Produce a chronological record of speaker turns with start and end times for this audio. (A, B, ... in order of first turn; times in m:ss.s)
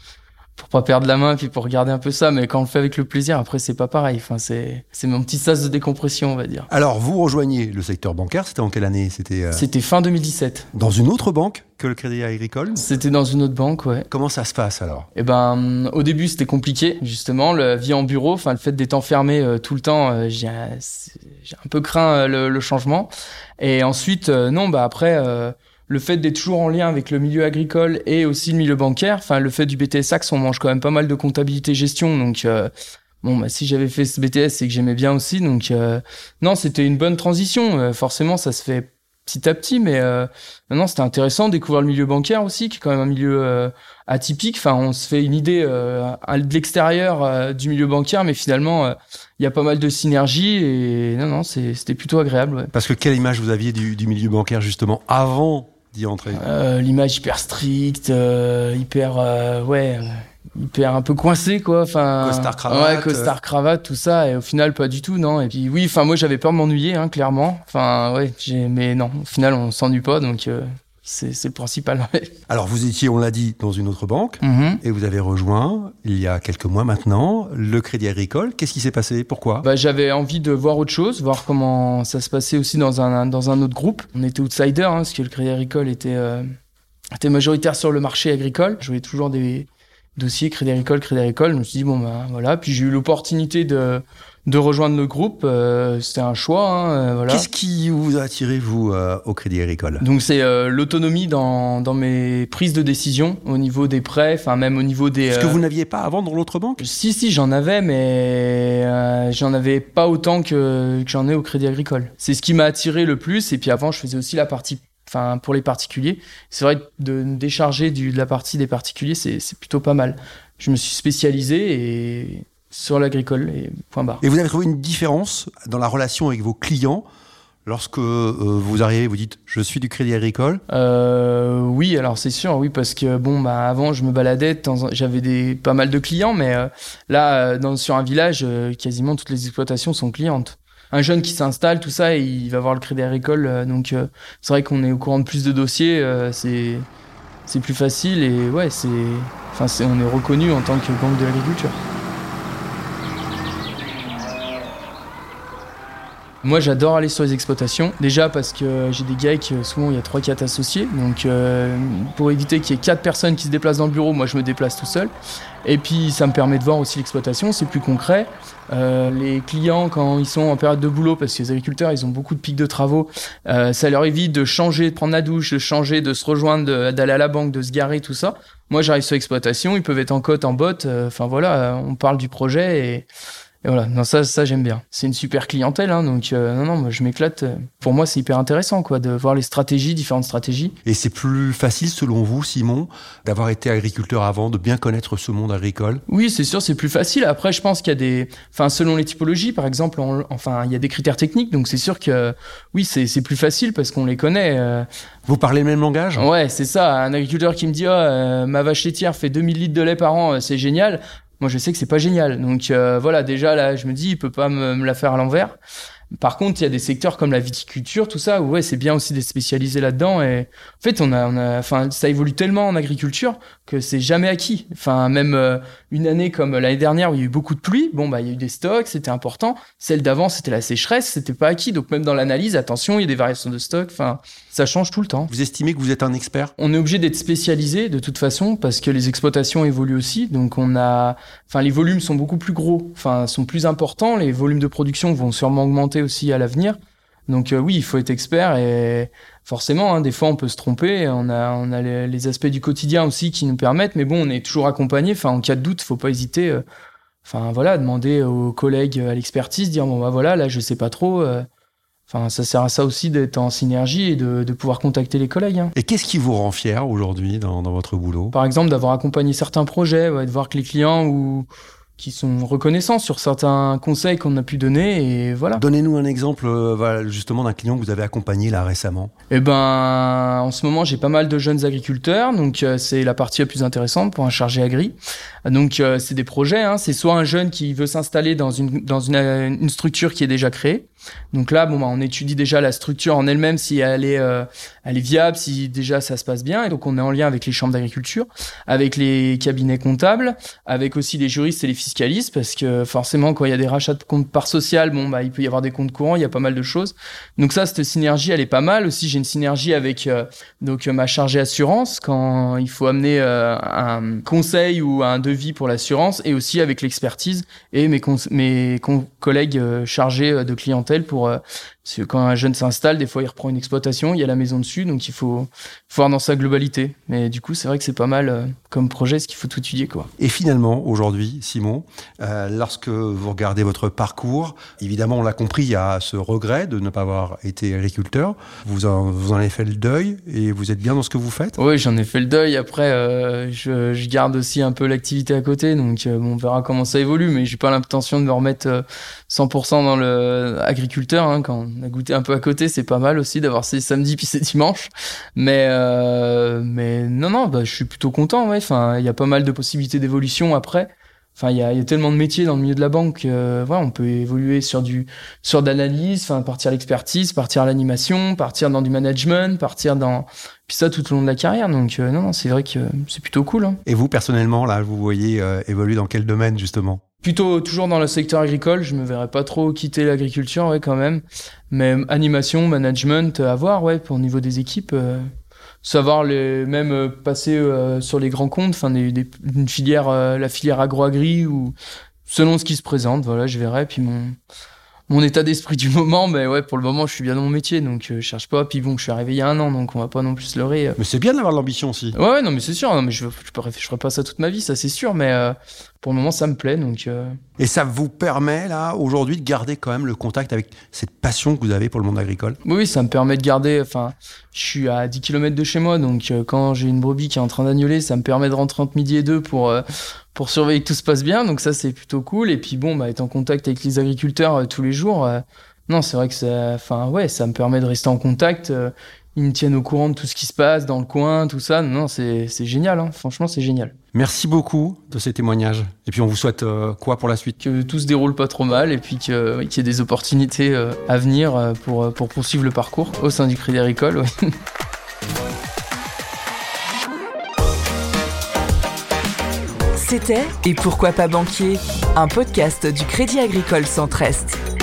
0:00.6-0:06.7 A
0:06.7-0:09.7 B
0:09.5-0:10.7 A
0:10.7-0:12.9 B
0:12.8-0:14.1 A
0:14.1-0:15.1 B
0:15.1-0:52.7 A
0:52.7-0:56.4 B
0:56.3-1:12.3 A
1:02.2-1:03.4 B
1:12.5-1:19.6 B
1:14.4-1:14.8 A
1:19.6-1:26.5 A
1:27.2-1:37.5 A
1:37.3-1:40.0 B
1:40.0-1:45.6 A
1:45.3-1:46.8 B
1:46.8-2:04.2 A
2:04.2-2:07.0 B
2:07.6-2:10.6 B
2:10.7-2:26.9 A
2:27.5-2:31.8 A
2:36.4-2:45.1 A
2:45.6-3:03.1 A
3:03.6-3:10.8 A
3:10.8-3:16.0 B
3:16.1-3:24.9 A
3:25.3-3:26.2 B
3:26.2-3:35.6 A
3:36.1-3:55.3 A
3:55.3-3:56.5 B
3:56.6-4:06.8 A
4:07.3-4:16.6 A
4:17.2-4:21.5 A
4:22.1-4:25.7 A
4:25.8-4:28.3 B
4:28.3-4:31.5 A
4:32.0-4:35.6 A
4:35.6-4:39.1 B
4:39.3-5:30.1 A
5:30.2-5:41.6 B
5:41.6-6:13.8 A
6:13.8-6:17.0 B
6:17.2-6:25.3 A
6:25.8-6:31.7 A
6:32.3-6:34.4 A
6:35.1-6:41.0 A
6:41.0-6:42.2 B
6:42.1-6:47.4 A
6:47.6-6:52.6 B
6:52.6-7:13.9 A
7:14.1-7:17.6 B
7:17.6-7:24.3 A
7:30.0-7:34.6 C